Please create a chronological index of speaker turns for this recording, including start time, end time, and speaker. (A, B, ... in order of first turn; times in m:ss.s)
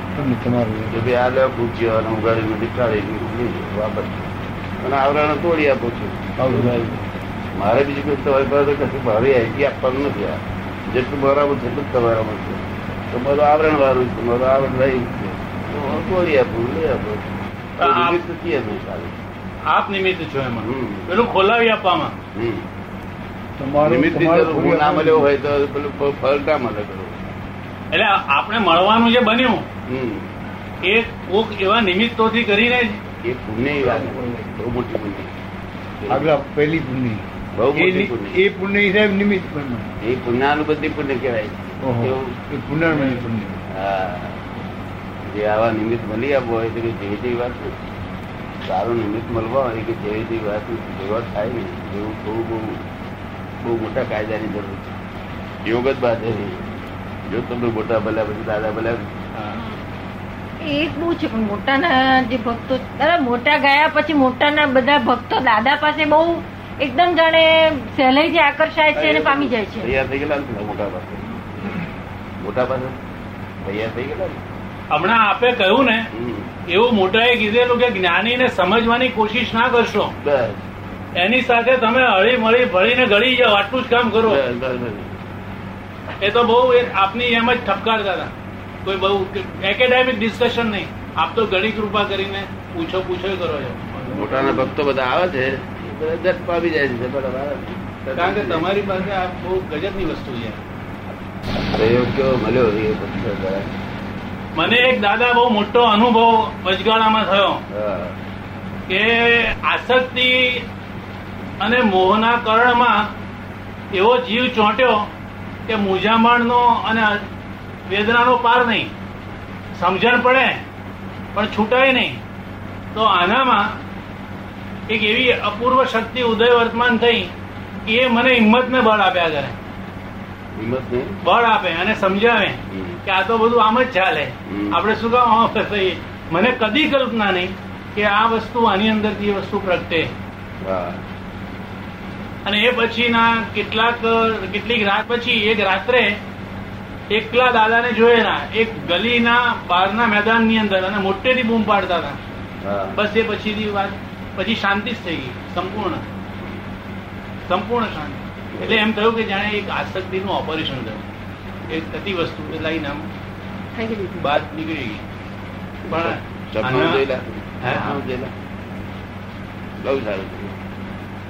0:00.2-0:01.0 A
0:00.9-0:04.3 B
0:04.8-0:06.8 B
0:06.4-0:07.0 A
0:07.6-0:17.2 B
0:17.8-0:18.2 C
0:17.8-0:19.2 B
0:19.7-0:22.2 C
0:20.6-0:21.1 B
0:22.4-0:22.6 B
0:23.6-0:25.3 A
0:23.8-0:27.2 B
0:27.9-0:29.6 C
0:29.9-0:30.3 B
0:30.8-0:33.0 C
0:33.2-0:35.3 B
0:33.8-0:34.6 A
0:36.0-0:36.3 B
0:36.1-0:39.9 A
0:37.6-0:38.4 B
0:40.0-0:42.3 B
0:41.8-0:43.6 A
0:43.8-0:44.4 B
0:45.3-0:47.7 B
0:48.6-0:52.8 B
0:53.6-0:55.0 B
0:55.6-0:56.7 B
0:57.3-0:59.1 B
0:59.3-0:59.6 C
1:00.6-1:09.9 D
1:08.9-1:11.4 B
1:12.4-1:13.0 B
1:13.6-1:14.4 B
1:14.9-1:16.1 C
1:16.1-1:16.5 B
1:16.7-1:20.2 C
1:20.2-1:20.6 B
1:21.2-1:24.4 C
1:24.2-1:25.1 B
1:26.2-1:28.3 C
1:28.8-1:34.7 C
1:34.1-1:38.7 B
1:38.2-1:40.6 C
1:41.7-1:43.7 B
1:44.6-1:47.6 C
1:44.6-1:45.0 B
1:47.7-1:48.2 B
1:48.9-1:50.6 C
1:51.6-1:53.1 C
1:53.9-1:55.1 C
1:55.7-1:57.2 C
1:57.9-1:58.9 C
1:59.8-2:00.6 C
2:01.3-2:02.2 C
2:02.9-2:03.8 C
2:04.9-2:07.3 C
2:07.9-2:09.6 C
2:10.6-2:11.2 B
2:11.2-2:20.1 C
2:12.7-2:13.0 B
2:14.5-2:14.8 B
2:20.6-2:21.0 B
2:22.4-2:26.2 C
2:27.1-2:32.2 C
2:32.6-2:33.0 B
2:33.0-2:36.0 C
2:37.5-2:41.0 C
2:38.6-2:38.9 B
2:41.7-2:43.1 C
2:43.8-2:44.3 D
2:44.2-2:45.0 C
2:45.9-2:48.3 B
2:45.9-2:47.0 C
2:47.6-2:48.0 C
2:49.8-2:50.6 B